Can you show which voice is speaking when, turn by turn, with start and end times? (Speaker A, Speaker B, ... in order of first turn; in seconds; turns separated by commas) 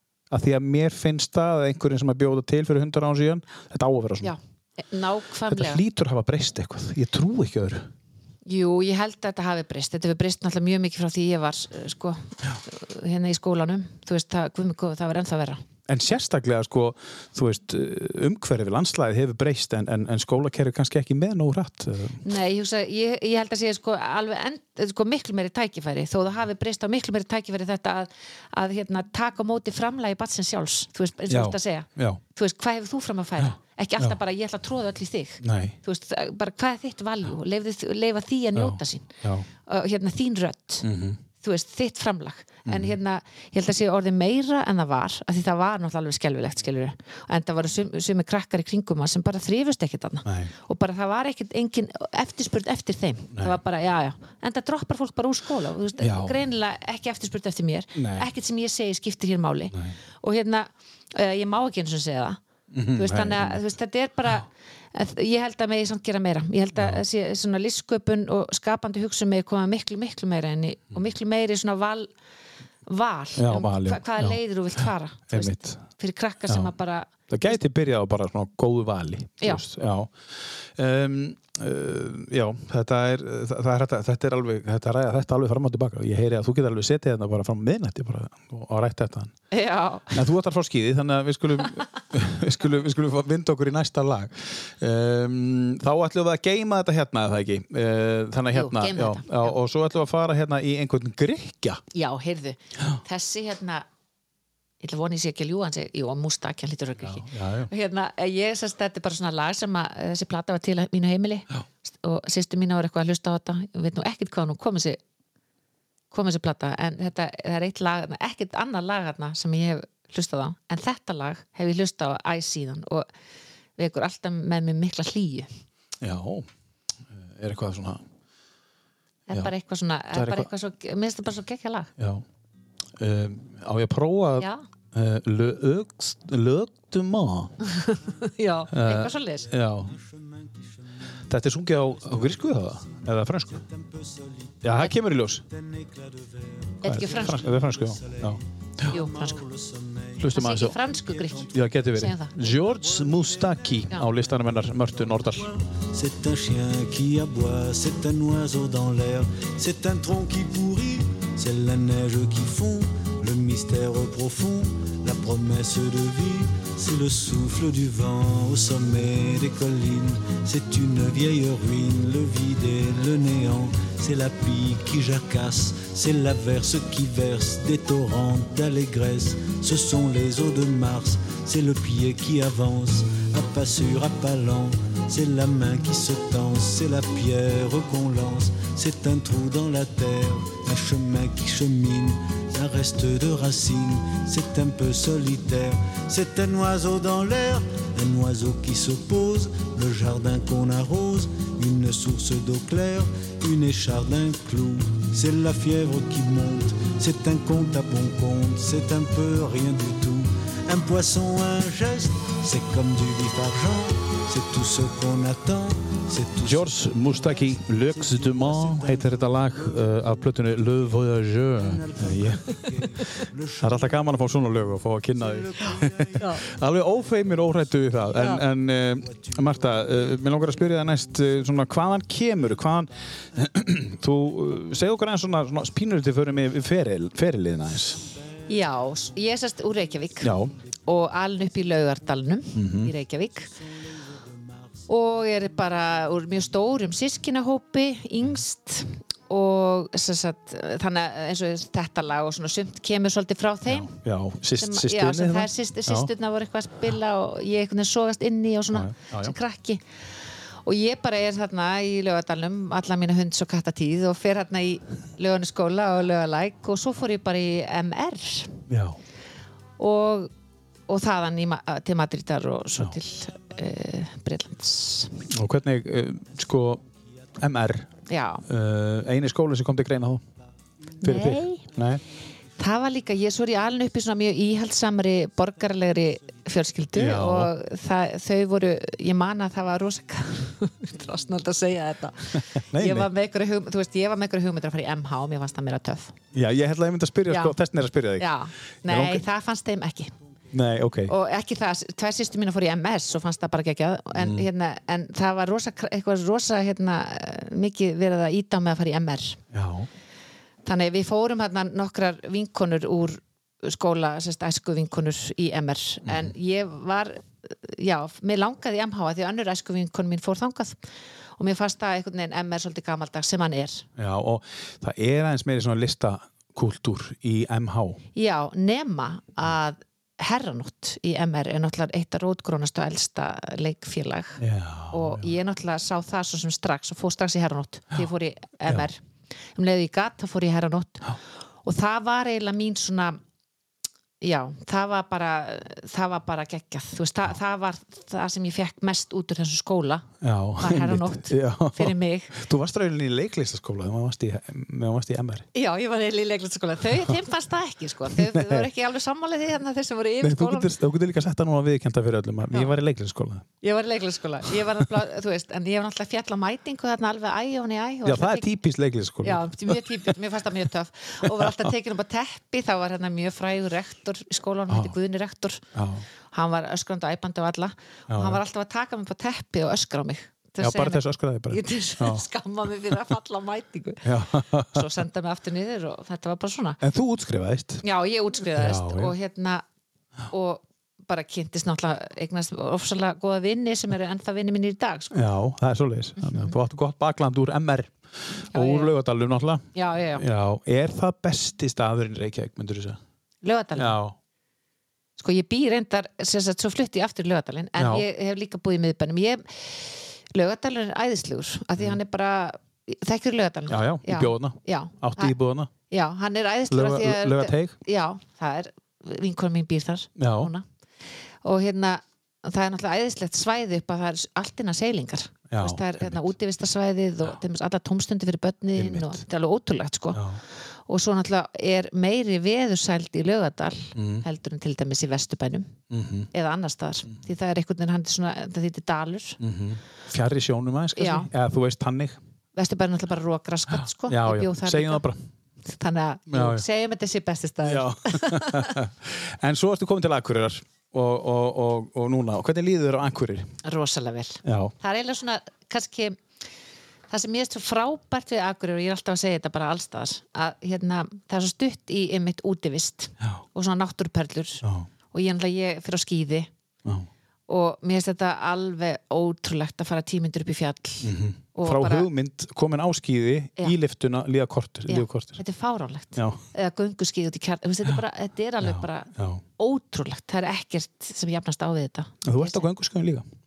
Speaker A: 0.3-4.3, Speaker B: 4.2-5.8, Speaker A: 5.5-7.9, Speaker B: 8.4-15.6, Speaker A: 15.9-22.2, Speaker B: 22.2-39.1, Speaker A: 31.3-32.2, Speaker A: 33.4-34.2, Speaker A: 35.4-35.8, Speaker A: 38.5-39.5, Speaker B: 39.6-40.9, Speaker A: 40.8-41.2, Speaker B: 41.4-62.4, Speaker A: 42.6-43.0, Speaker A: 50.2-50.5, Speaker A: 56.0-56.4, Speaker A: 58.0-58.3, Speaker A: 59.7-60.0, Speaker A: 62.7-63.6, Speaker B: 62.9-72.1, Speaker A: 66.7-67.0, Speaker B: 72.9-77.6, Speaker A: 73.3-75.8, Speaker A: 77.3-89.3, Speaker B: 89.5-90.2, Speaker A: 90.1-101.8, Speaker B: 98.5-99.6, Speaker B: 101.9-103.8, Speaker B: 104.8-115.0, Speaker A: 107.0-107.7, Speaker B: 116.1-123.1, Speaker B: 123.8-125.5, Speaker A: 126.0-126.5, Speaker A: 127.1-128.0, Speaker B: 129.3-131.9, Speaker A: 130.1-130.5, Speaker A: 132.0-132.2, Speaker A: 133.0-137.6, Speaker B: 137.7-139.5, Speaker A: 138.7-139.9, Speaker C: 139.4-141.1, Speaker A: 141.3-143.6, Speaker C: 141.9-144.9, Speaker A: 144.6-145.4, Speaker C: 145.4-220.1, Speaker B: 146.8-147.4, Speaker A: 146.8-148.9, Speaker B: 148.9-149.4, Speaker A: 150.2-150.8, Speaker B: 150.3-152.4, Speaker A: 151.5-155.5, Speaker A: 216.4-222.6, Speaker C: 221.6-224.1, Speaker B: 222.5-223.2, Speaker A: 223.6-238.0, Speaker C: 225.1-226.6, Speaker B: 226.2-226.4, Speaker C: 227.9-231.3, Speaker B: 228.1-228.4, Speaker B: 238.5-240.3, Speaker A: 240.2-240.5, Speaker B: 240.8-243.5, Speaker A: 242.5-242.9, Speaker C: 244.1-244.6, Speaker B: 244.9-253.9, Speaker A: 253.7-256.1, Speaker B: 254.6-259.8, Speaker A: 258.7-259.4, Speaker B: 260.6-268.6, Speaker A: 268.7-269.0, Speaker B: 269.8-270.3, Speaker B: 270.9-275.2, Speaker A: 275.3-276.8, Speaker A: 277.4-277.9, Speaker B: 278.1-278.4, Speaker A: 278.4-280.2, Speaker B: 281.0-281.6, Speaker A: 281.0-282.0, Speaker B: 282.6-296.1, Speaker A: 286.9-287.5, Speaker A: 292.3-293.1, Speaker A: 296.3-299.2, Speaker B: 297.3-297.6, Speaker B: 298.2-300.1, Speaker A: 300.5-301.1, Speaker B: 301.1-309.4, Speaker A: 304.1-304.5, Speaker A: 309.5-309.9, Speaker B: 310.6-320.8, Speaker A: 316.0-316.3, Speaker B: 321.4-323.9, Speaker A: 323.9-328.0, Speaker B: 328.1-339.0, Speaker A: 334.4-335.3, Speaker B: 339.5-343.2, Speaker B: 344.2-352.4, Speaker A: 350.2-355.4, Speaker B: 355.5-360.7, Speaker A: 358.1-358.7, Speaker A: 360.2-363.5, Speaker B: 363.6-368.5, Speaker A: 368.0-370.1, Speaker B: 369.2-375.6, Speaker A: 374.7-374.9, Speaker A: 375.7-376.0, Speaker B: 376.3-386.8, Speaker A: 378.1-378.4, Speaker A: 380.6-382.2, Speaker A: 384.0-384.9, Speaker A: 386.8-387.8, Speaker B: 387.8-389.6, Speaker A: 388.4-389.1, Speaker B: 390.3-395.2, Speaker A: 395.1-403.0, Speaker B: 396.2-396.5, Speaker B: 398.5-398.9, Speaker B: 399.7-400.2, Speaker B: 403.4-404.0, Speaker A: 403.8-404.1, Speaker B: 405.2-415.4, Speaker A: 407.8-408.1, Speaker A: 413.7-415.7, Speaker B: 415.9-420.6, Speaker A: 416.7-417.7, Speaker A: 420.2-420.5, Speaker B: 421.4-435.8, Speaker A: 425.5-426.3, Speaker A: 428.8-429.2, Speaker A: 430.1-430.4, Speaker A: 433.9-434.2, Speaker A: 435.9-436.3, Speaker B: 436.3-439.4, Speaker A: 439.4-442.2, Speaker B: 441.0-441.3, Speaker B: 442.6-445.0, Speaker A: 444.1-445.2, Speaker B: 445.6-448.8, Speaker A: 446.3-446.6, Speaker A: 447.6-453.5, Speaker B: 453.6-456.2, Speaker A: 454.4-454.7, Speaker B: 457.1-466.5, Speaker B: 467.5-472.1, Speaker A: 471.0-475.4, Speaker B: 474.9-482.6, Speaker A: 476.1-476.4, Speaker A: 478.6-479.4, Speaker A: 482.2-483.2